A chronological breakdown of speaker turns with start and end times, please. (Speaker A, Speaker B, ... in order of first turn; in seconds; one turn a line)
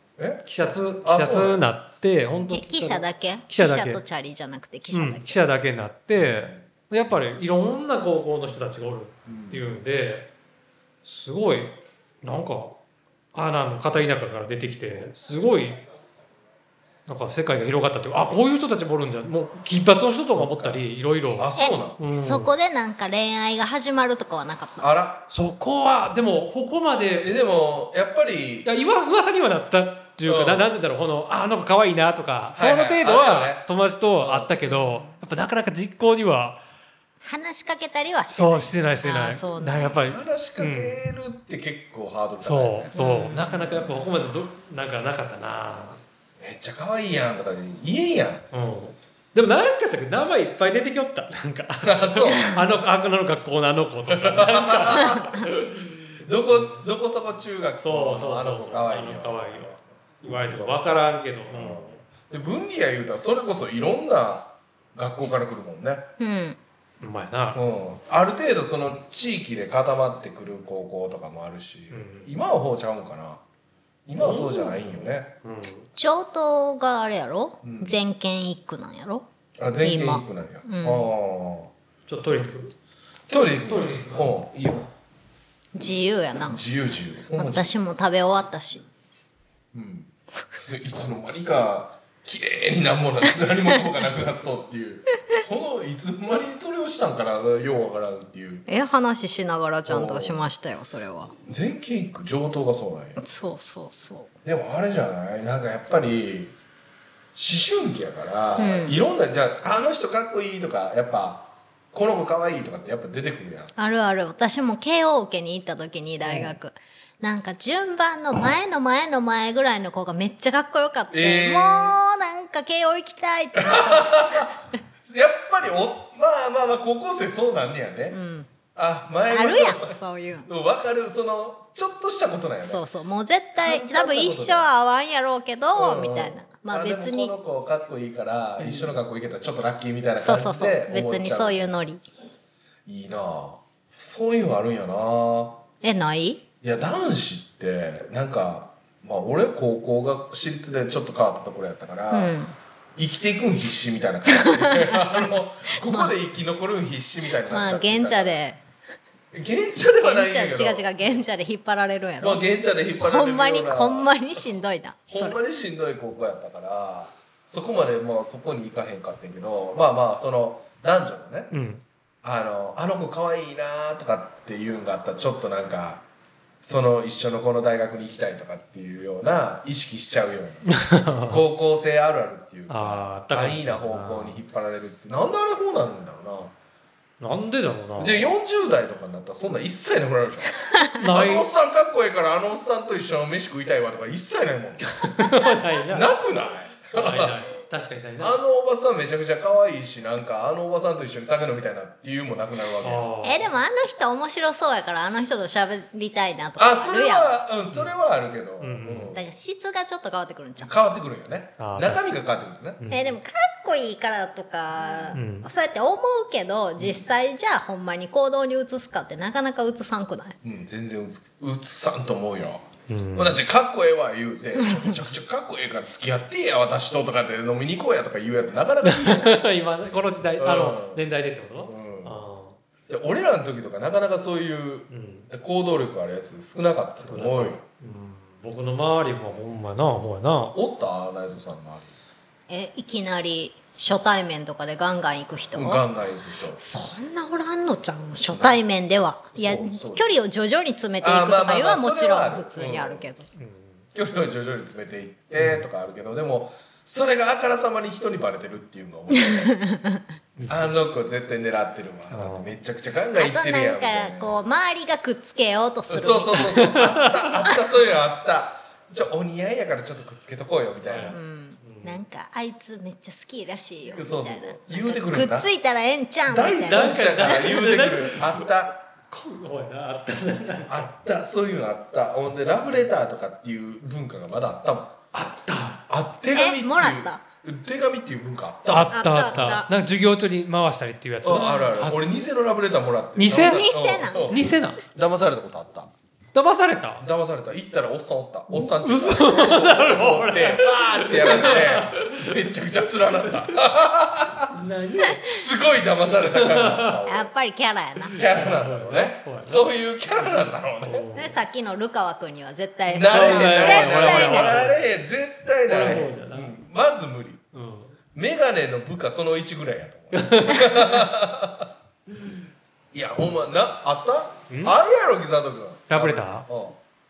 Speaker A: 0.2-0.4
Speaker B: 0.4-4.0
Speaker A: 1.0-1.6
Speaker C: 2.5-5.4
Speaker B: 4.9-10.3
Speaker A: 6.1-6.6
Speaker A: 9.2-9.7
Speaker B: 11.0-12.8
Speaker B: 13.3-15.8
Speaker B: 17.1-22.5
Speaker A: 20.2-22.0
Speaker C: 21.6-24.9
Speaker A: 24.8-25.3
Speaker B: 25.3-27.3
Speaker A: 27.2-28.7
Speaker B: 28.6-36.6
Speaker A: 30.2-30.7
Speaker A: 32.5-33.6
Speaker A: 34.2-34.5
Speaker C: 34.6-35.2
Speaker C: 37.2-40.0
Speaker B: 38.3-41.0
Speaker A: 40.0-43.9
Speaker B: 42.4-46.0
Speaker C: 42.9-43.6
Speaker A: 46.4-48.4
Speaker B: 48.5-55.6
Speaker A: 51.8-52.5
Speaker A: 54.1-55.7
Speaker A: 56.2-60.9
Speaker B: 57.8-62.0
Speaker A: 61.5-66.1
Speaker C: 66.2-66.6
Speaker B: 67.0-67.6
Speaker A: 67.5-73.4
Speaker B: 71.9-72.3
Speaker A: 74.1-75.3
Speaker B: 74.2-74.9
Speaker B: 75.4-75.9
Speaker C: 76.0-79.3
Speaker A: 77.6-78.0
Speaker A: 79.6-81.7
Speaker C: 79.8-81.1
Speaker B: 82.1-82.7
Speaker A: 83.3-84.9
Speaker B: 83.5-84.3
Speaker C: 85.7-86.6
Speaker A: 86.5-87.7
Speaker C: 87.3-88.9
Speaker A: 89.7-98.7
Speaker C: 98.7-101.3
Speaker A: 99.9-100.5
Speaker A: 101.5-103.2
Speaker C: 103.2-104.3
Speaker A: 104.4-106.5
Speaker A: 107.3-113.7
Speaker C: 108.6-109.0
Speaker C: 113.8-124.6
Speaker A: 116.2-116.5
Speaker A: 121.1-122.0
Speaker A: 123.5-128.2
Speaker C: 128.1-128.5
Speaker A: 128.7-132.8
Speaker C: 129.3-130.5
Speaker C: 132.6-137.3
Speaker A: 133.6-134.7
Speaker A: 135.8-141.7
Speaker C: 138.6-138.9
Speaker C: 140.2-142.0
Speaker A: 142.8-145.6
Speaker C: 145.8-146.4
Speaker A: 146.6-152.3
Speaker C: 152.1-152.6
Speaker A: 153.0-158.4
Speaker C: 154.4-156.1
Speaker C: 157.4-158.6
Speaker A: 159.3-160.9
Speaker C: 160.0-162.4
Speaker A: 162.2-164.1
Speaker C: 163.0-165.4
Speaker A: 165.1-171.5
Speaker B: 171.5-171.8
Speaker A: 172.2-176.0
Speaker A: 176.6-186.5
Speaker B: 180.7-181.4
Speaker B: 182.7-184.4
Speaker B: 187.2-188.2
Speaker A: 188.0-190.6
Speaker B: 190.9-191.5
Speaker A: 191.1-195.3
Speaker B: 195.0-196.1
Speaker A: 195.9-197.5
Speaker B: 196.9-198.4
Speaker A: 198.2-203.1
Speaker B: 202.8-203.5
Speaker C: 203.2-207.3
Speaker A: 206.6-209.2
Speaker B: 208.6-209.1
Speaker C: 209.1-210.7
Speaker A: 210.6-212.8
Speaker B: 211.6-212.1
Speaker B: 212.8-213.2
Speaker C: 212.9-220.4
Speaker A: 214.8-215.2
Speaker B: 215.1-215.5
Speaker A: 216.8-217.1
Speaker A: 220.4-229.3
Speaker B: 222.9-223.4
Speaker C: 224.6-224.9
Speaker B: 228.8-232.6
Speaker A: 230.4-231.0
Speaker A: 231.6-232.2
Speaker A: 232.9-237.6
Speaker B: 234.9-235.3
Speaker B: 237.0-240.6
Speaker A: 240.5-241.9
Speaker C: 242.5-245.8
Speaker A: 245.5-246.6
Speaker C: 246.6-253.2
Speaker A: 248.3-248.6
Speaker A: 249.3-250.1
Speaker A: 251.0-253.1
Speaker B: 253.3-253.8
Speaker A: 253.9-259.6
Speaker B: 255.4-255.7
Speaker C: 259.2-260.0
Speaker B: 260.4-260.7
Speaker A: 260.5-264.4
Speaker B: 262.1-262.5
Speaker C: 263.1-266.8
Speaker A: 265.9-271.2
Speaker B: 266.5-267.1
Speaker B: 270.9-272.0
Speaker C: 271.1-277.6
Speaker A: 273.8-275.5
Speaker A: 276.3-278.8
Speaker B: 276.6-278.5
Speaker B: 279.1-280.9
Speaker A: 280.7-285.0
Speaker B: 285.1-285.8
Speaker A: 285.9-288.9
Speaker C: 286.3-287.2
Speaker B: 288.7-292.1
Speaker C: 288.9-289.7
Speaker A: 291.2-295.9
Speaker B: 293.1-294.8
Speaker C: 293.3-294.5
Speaker B: 296.3-297.0
Speaker A: 297.0-304.5
Speaker B: 298.5-302.5
Speaker B: 304.5-305.3
Speaker C: 305.0-305.3
Speaker A: 305.2-307.3
Speaker B: 306.3-306.9
Speaker C: 307.1-308.2
Speaker A: 308.1-311.1
Speaker B: 308.2-309.6
Speaker B: 310.2-311.4
Speaker C: 311.1-314.6
Speaker A: 312.9-317.4
Speaker B: 313.1-314.8
Speaker B: 315.7-316.5
Speaker B: 317.5-317.9
Speaker A: 318.1-321.7
Speaker B: 320.1-321.1
Speaker A: 322.9-326.8
Speaker B: 324.5-324.8
Speaker B: 325.9-326.5